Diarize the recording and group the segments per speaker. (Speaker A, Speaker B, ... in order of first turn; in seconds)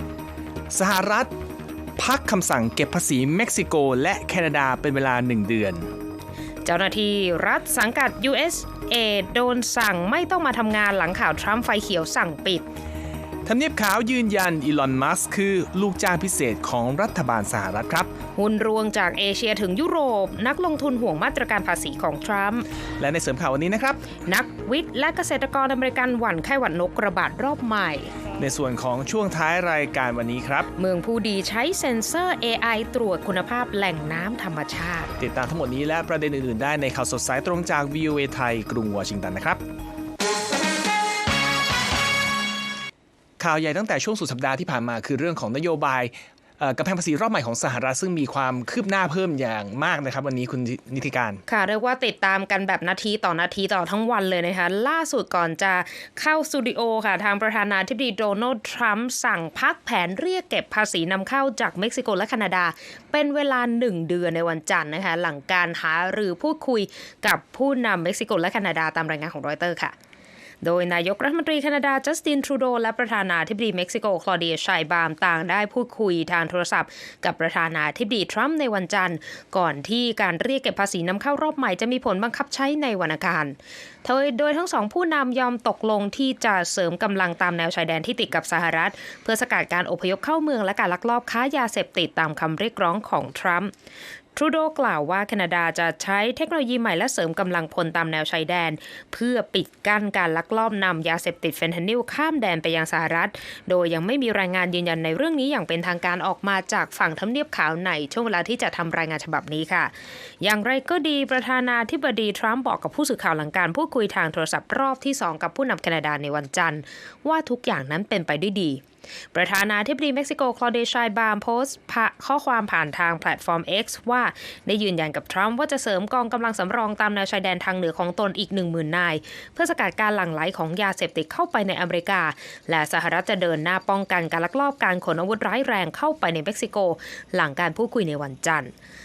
Speaker A: 0.7-1.3, 2.0-5.9, 13.4-18.1, 23.0-24.1, 28.4-30.7, 35.2-39.6, 43.4-51.4
Speaker B: 6.6-12.7, 18.4-22.6, 24.2-28.1, 30.8-35.1, 51.5-69.9, 70.6-93.7, 94.3-109.9, 110.4-118.8, 119.3-138.7